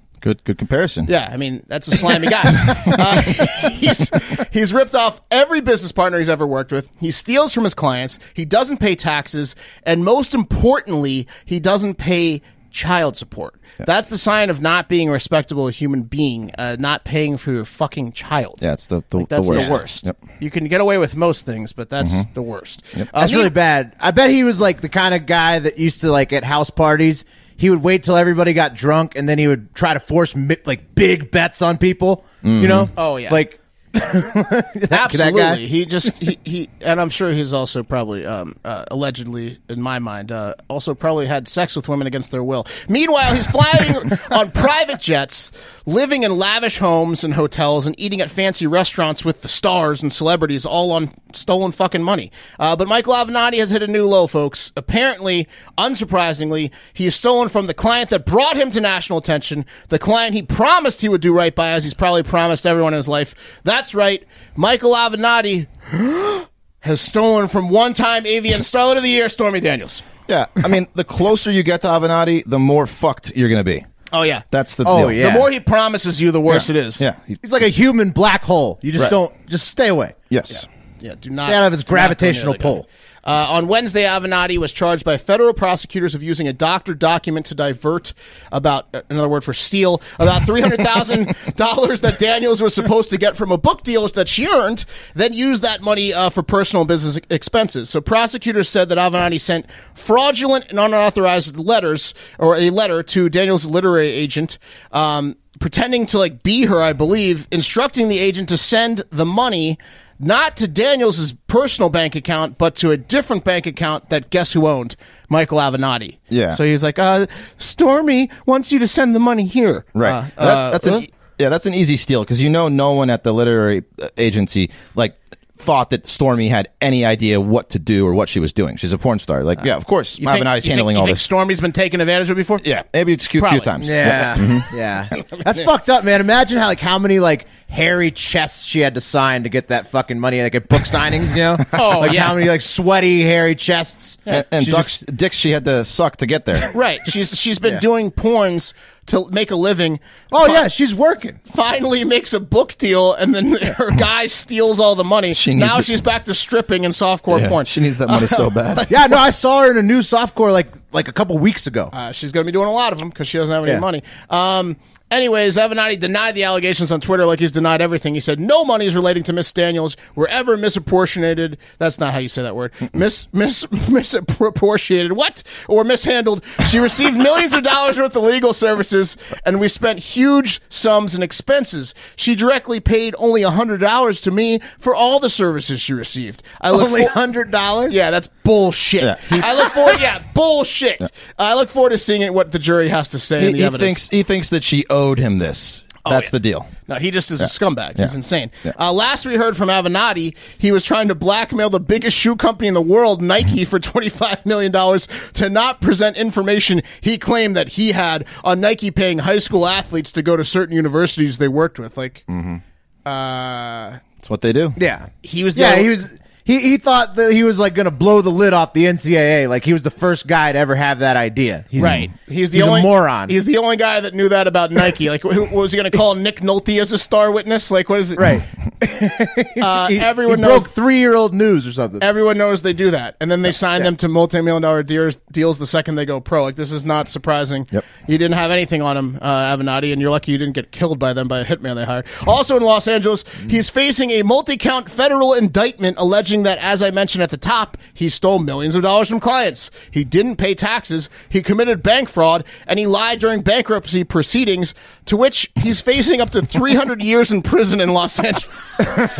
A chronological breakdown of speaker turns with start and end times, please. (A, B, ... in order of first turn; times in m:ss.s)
0:00.2-0:01.1 A
0:01.1-0:18.6 B
0:02.7-0:03.0 A
0:18.6-0:20.2 A
0:19.2-0:23.5 B
0:22.0-0:22.2 A
0:23.2-0:35.6 C
0:32.4-0:32.9 A
0:33.0-0:33.4 B
0:34.9-1:10.0 B
1:10.3-1:13.8 A
1:14.1-1:14.4 B
1:14.5-1:15.3 A
1:14.8-1:15.5 C
1:15.2-1:17.0 B
1:16.5-1:17.6 A
1:17.4-1:20.2 C
1:20.3-1:20.6 A
1:20.5-2:01.0 B
1:21.5-1:22.8 C
1:56.3-1:56.6 A
2:00.0-2:11.2 A
2:10.2-2:12.6 B
2:12.6-2:14.7 A
2:13.4-2:13.8 B
2:13.8-2:24.9 C
2:21.7-2:22.4 B
2:24.3-2:26.7 A
2:26.7-2:30.6 B
2:30.3-2:31.4 C
2:31.5-2:38.9 B
2:35.3-2:35.9 A
2:37.3-2:38.9 A
2:38.9-2:41.9 C
2:41.9-3:07.2 B
3:06.7-3:08.0 C
3:07.9-3:14.0 B
3:09.0-3:09.4 A
3:13.4-3:16.7 A
3:16.0-3:16.3 B
3:16.8-3:32.2 B
3:17.4-3:18.1 A
3:32.3-3:32.6 A
3:33.0-3:34.0 B
3:34.2-3:34.8 A
3:34.8-3:43.3 C
3:35.2-3:35.9 B
3:41.8-3:48.4 B
3:48.2-3:52.0 C
3:49.6-3:50.7 B
3:52.0-4:18.8 B